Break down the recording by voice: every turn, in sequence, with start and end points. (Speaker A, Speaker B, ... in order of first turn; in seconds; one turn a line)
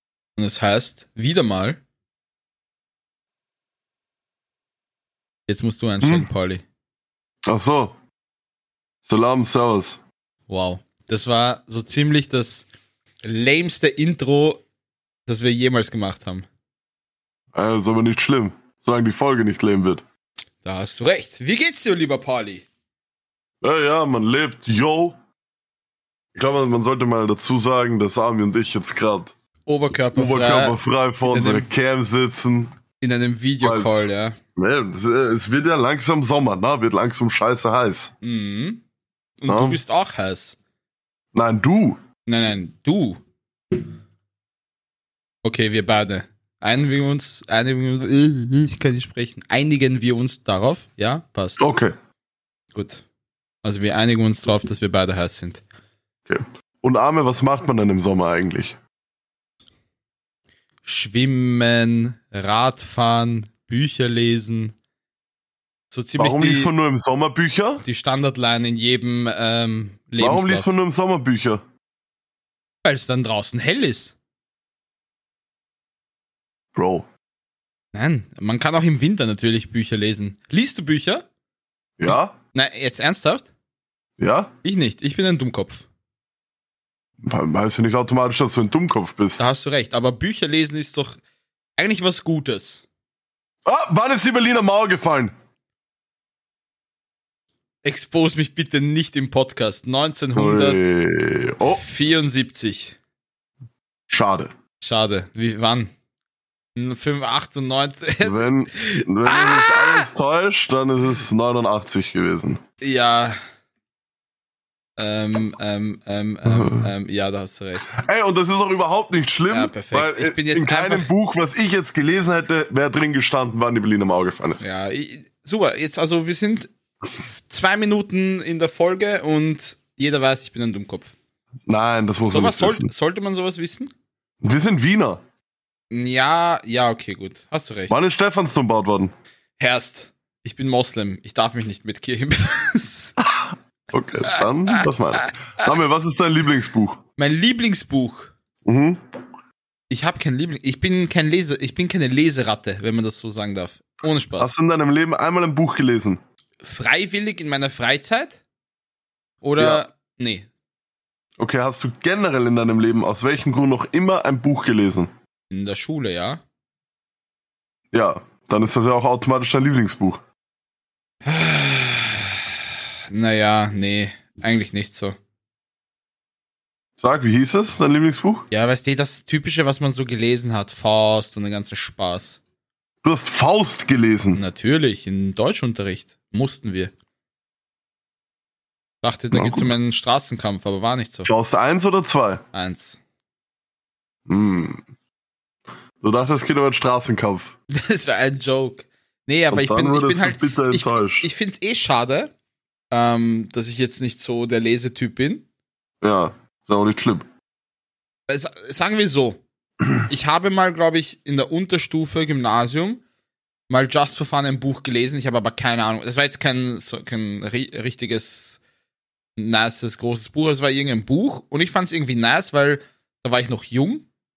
Speaker A: 0.4-1.8
Speaker A: 5.5-6.6
Speaker B: 6.0-6.3
Speaker B: 7.5-8.0
Speaker B: 9.0-10.0
Speaker A: 10.5-12.7
Speaker A: 13.2-14.6
Speaker A: 15.3-16.4
Speaker B: 17.5-20.0
Speaker A: 20.6-22.7
Speaker B: 23.6-25.2
Speaker B: 26.4-29.4
Speaker A: 29.7-31.7
Speaker B: 30.1-32.7
Speaker A: 33.0-34.4
Speaker B: 33.6-38.1
Speaker A: 38.2-38.8
Speaker A: 39.4-40.6
Speaker B: 39.5-39.8
Speaker B: 41.3-42.0
Speaker A: 42.3-43.2
Speaker A: 45.4-51.6
Speaker B: 51.6-51.9
Speaker A: 52.7-53.0
Speaker A: 53.6-55.6
Speaker B: 56.3-58.8
Speaker A: 60.8-64.8
Speaker A: 65.9-66.7
Speaker B: 66.2-67.8
Speaker A: 67.8-70.7
Speaker B: 70.2-71.6
Speaker A: 72.8-74.1
Speaker B: 76.8-77.1
Speaker A: 77.9-81.2
Speaker B: 82.0-82.3
Speaker A: 82.1-83.5
Speaker B: 84.2-84.5
Speaker A: 84.6-85.8
Speaker B: 87.2-89.4
Speaker A: 89.4-91.2
Speaker A: 91.8-92.8
Speaker B: 93.7-95.3
Speaker A: 97.8-100.9
Speaker B: 100.3-101.8
Speaker A: 101.6-103.0
Speaker B: 104.1-104.5
Speaker A: 104.8-105.9
Speaker A: 106.8-110.1
Speaker B: 108.2-112.6
Speaker A: 112.8-113.4
Speaker A: 115.0-117.9
Speaker B: 116.5-116.9
Speaker B: 117.8-124.6
Speaker A: 119.5-121.1
Speaker A: 124.6-131.1
Speaker B: 131.7-132.9
Speaker A: 132.3-133.9
Speaker B: 134.4-135.2
Speaker A: 135.9-138.0
Speaker B: 137.9-139.2
Speaker A: 139.6-143.2
Speaker B: 143.2-147.0
Speaker A: 144.3-145.3
Speaker A: 147.2-148.3
Speaker B: 148.7-149.0
Speaker A: 149.9-154.5
Speaker B: 154.4-156.2
Speaker A: 156.6-158.4
Speaker A: 159.4-160.5
Speaker B: 161.4-165.1
Speaker A: 165.5-166.4
Speaker B: 167.9-170.2
Speaker A: 171.2-172.5
Speaker A: 173.1-175.2
Speaker B: 177.0-178.5
Speaker A: 178.5-182.4
Speaker B: 183.0-184.4
Speaker A: 184.3-186.9
Speaker A: 189.0-191.3
Speaker B: 189.3-189.7
Speaker B: 191.2-192.4
Speaker A: 192.5-193.0
Speaker B: 194.3-194.8
Speaker B: 196.0-197.6
Speaker A: 197.7-202.3
Speaker B: 199.5-201.3
Speaker A: 202.9-205.4
Speaker B: 206.0-207.3
Speaker A: 208.3-209.4
Speaker A: 210.1-213.0
Speaker A: 213.7-218.6
Speaker A: 219.4-224.1